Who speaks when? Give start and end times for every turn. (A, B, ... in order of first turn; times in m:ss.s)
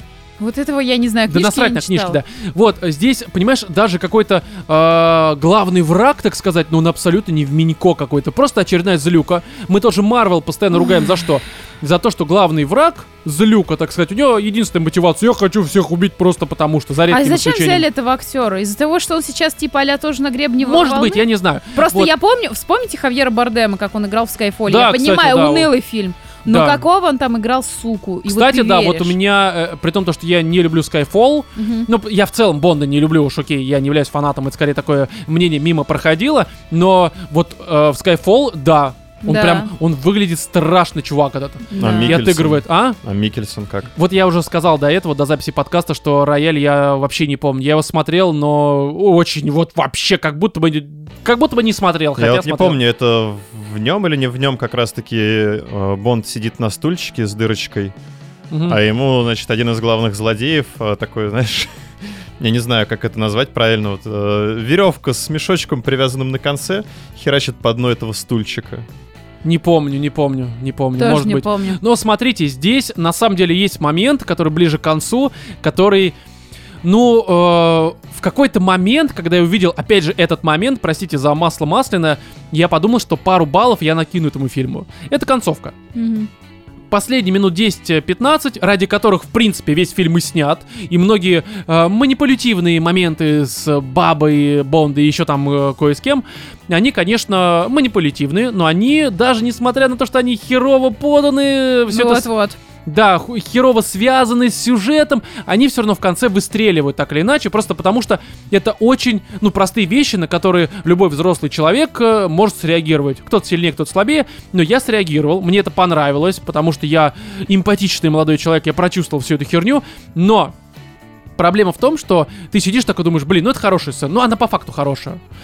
0:00.4-0:02.2 A
0:01.3-0:17.8 B
0:17.1-0:29.2 A
0:20.6-0:22.1 B
0:24.7-0:25.7 B
0:26.4-0:26.8 B
0:28.3-0:43.0 B
0:31.6-0:31.9 A
0:39.2-0:39.7 A
0:41.7-0:42.2 A
0:41.8-0:43.9 C
0:44.0-0:52.8 B
0:52.2-0:57.9 C
0:58.5-0:58.8 B
0:58.7-1:01.7 C
1:02.4-1:08.8 C
1:09.4-1:16.1 B
1:11.0-1:11.8 A
1:16.8-1:25.7 B
1:26.0-1:26.3 A
1:26.9-1:42.3 B
1:41.9-1:42.6 A
1:42.8-2:00.5 B
2:01.4-2:05.2 B